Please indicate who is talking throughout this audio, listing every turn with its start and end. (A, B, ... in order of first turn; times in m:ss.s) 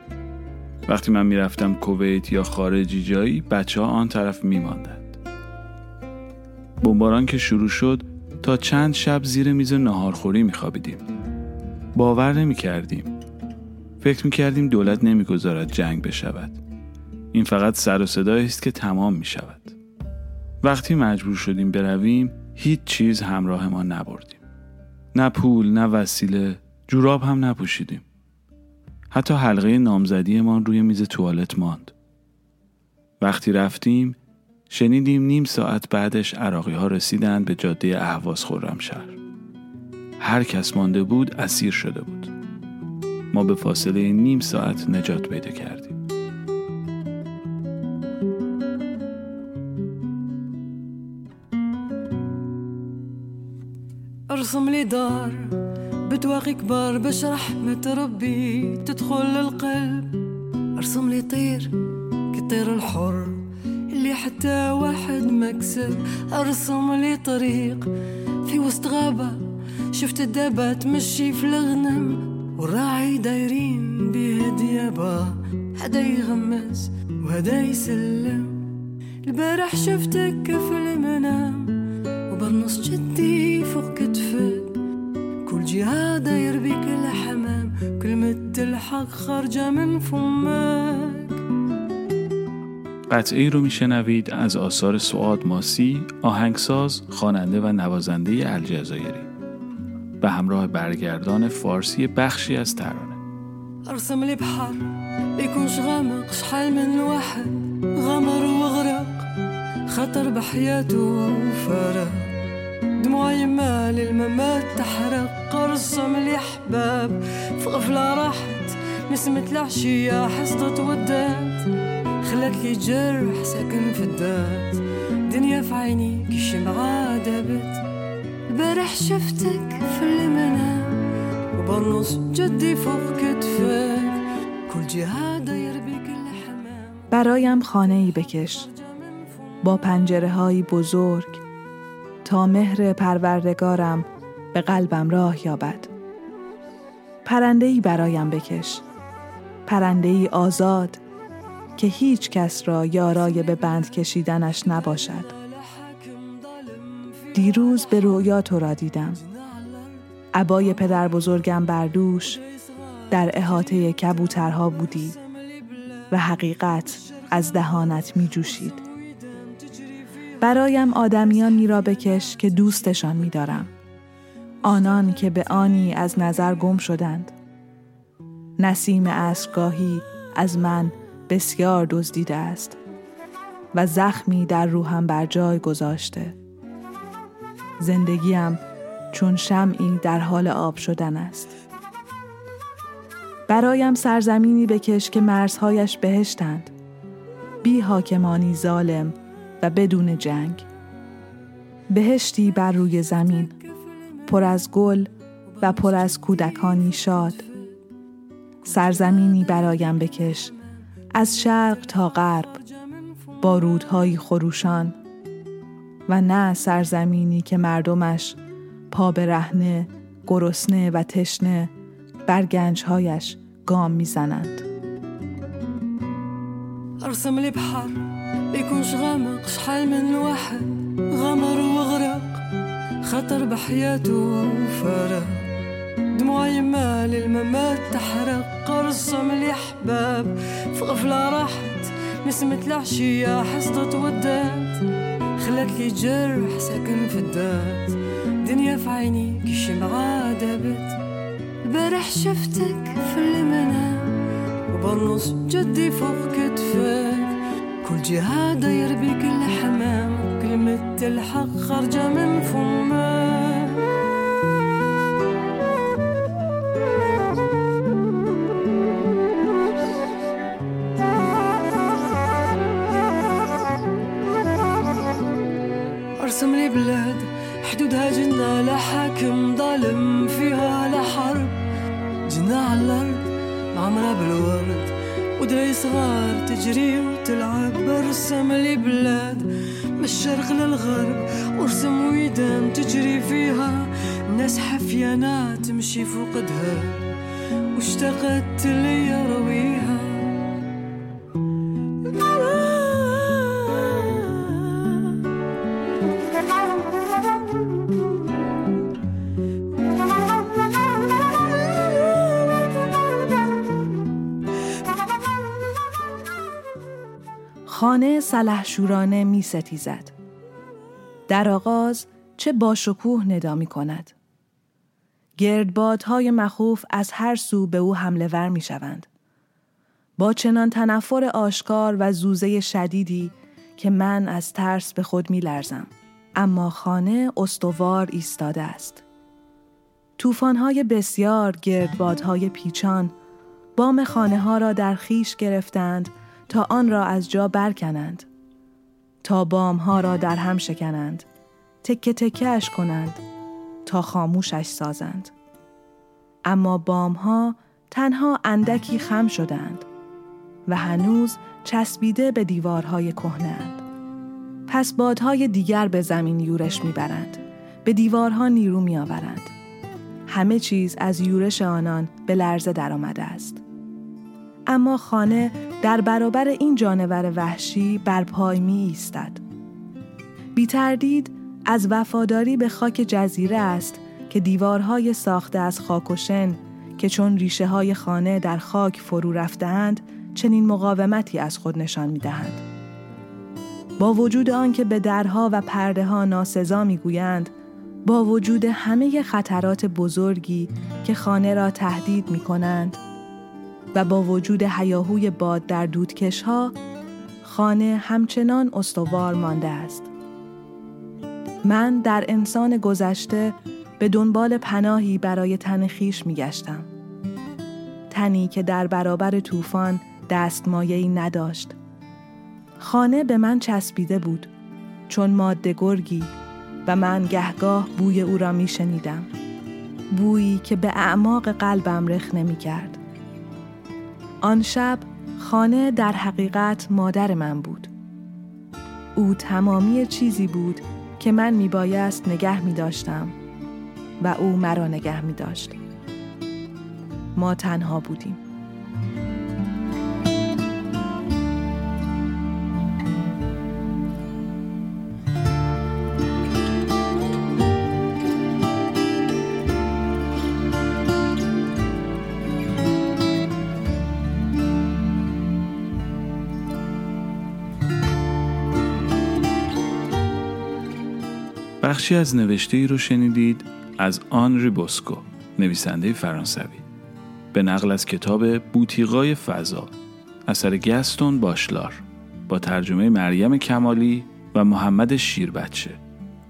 0:00.9-0:05.2 A
0:06.8-0:11.0 A
0:12.0-0:13.2 A
0:14.0-0:16.6 A
0:17.3-0:19.8 A
0:20.6-0:24.4 A
0:25.1-0:28.0 A
0:29.1-0:31.9 A
0:33.2-0:34.2 A
0:34.7-0:39.2 A
0:40.2-0:42.3 A
0:43.3-0:46.0 A
0:54.3-1:00.2 B
1:00.8-1:01.7 B
1:02.3-1:07.9 B
1:08.4-1:18.7 B
1:19.2-1:24.8 B
1:25.4-1:31.4 B
1:33.1-1:39.3 A
1:40.2-1:43.2 A
1:43.8-1:49.3 B
1:49.9-1:52.4 B
1:53.0-2:07.8 B
2:08.5-2:17.1 B
2:17.1-2:18.7 C
2:18.7-2:19.6 B
2:19.6-2:21.4 C
2:22.2-2:25.9 C
2:27.2-2:28.8 C
2:29.7-2:31.0 C
2:31.8-2:35.3 C
2:35.3-2:38.3 B
2:37.3-2:39.2 C
2:39.2-2:40.0 B
2:40.3-2:42.4 C
2:42.4-2:46.1 B
2:43.1-2:45.2 C
2:46.1-2:48.8 C
2:47.0-2:50.4 B
2:50.4-2:53.7 C
2:54.6-2:57.3 C
2:58.6-3:02.8 C
3:03.7-3:06.4 C
3:07.8-3:08.6 C
3:09.1-3:11.5 C
3:13.5-3:16.7 C
3:17.6-3:20.7 C
3:21.9-3:23.6 C
3:24.3-3:25.1 C
3:25.5-3:27.8 B
3:25.6-3:27.4 C
3:28.7-3:30.5 C
3:31.1-3:32.6 C
3:32.4-3:33.4 B
3:33.4-3:35.0 C
3:36.1-3:38.4 C
3:38.9-3:41.7 C
3:42.3-3:44.6 C
3:47.0-3:52.4 B
3:53.0-3:55.5 B
3:56.1-4:11.0 B
4:11.6-4:23.9 B
4:36.2-4:41.6 B
4:42.3-4:57.1 B
4:57.7-5:00.5 B
5:02.1-5:05.1 B
5:17.7-5:20.1 C
5:21.3-5:24.1 C
5:25.4-5:29.1 C
5:30.2-5:39.0 C
5:40.2-5:43.1 C
5:43.8-5:48.3 C
5:49.2-5:51.3 C
5:51.8-5:53.2 C
5:53.9-5:55.3 C
5:56.5-5:59.9 C
6:00.7-6:03.8 C
6:04.7-6:09.5 C
6:10.3-6:13.6 C
6:14.7-6:19.4 C
6:20.6-6:32.6 C
6:34.0-6:37.5 C
6:38.1-6:43.0 C
6:43.9-6:46.8 C
6:47.4-6:50.1 C
6:51.6-6:56.9 C
6:58.1-7:01.8 C
7:02.8-7:04.5 C
7:05.1-7:06.3 C
7:06.9-7:09.3 C
7:10.1-7:13.0 C
7:14.4-7:17.9 C
7:19.2-7:23.4 C
7:24.2-7:25.8 C
7:27.4-7:28.4 C
7:51.8-7:56.8 A
7:57.5-7:59.9 A
8:00.5-8:06.0 A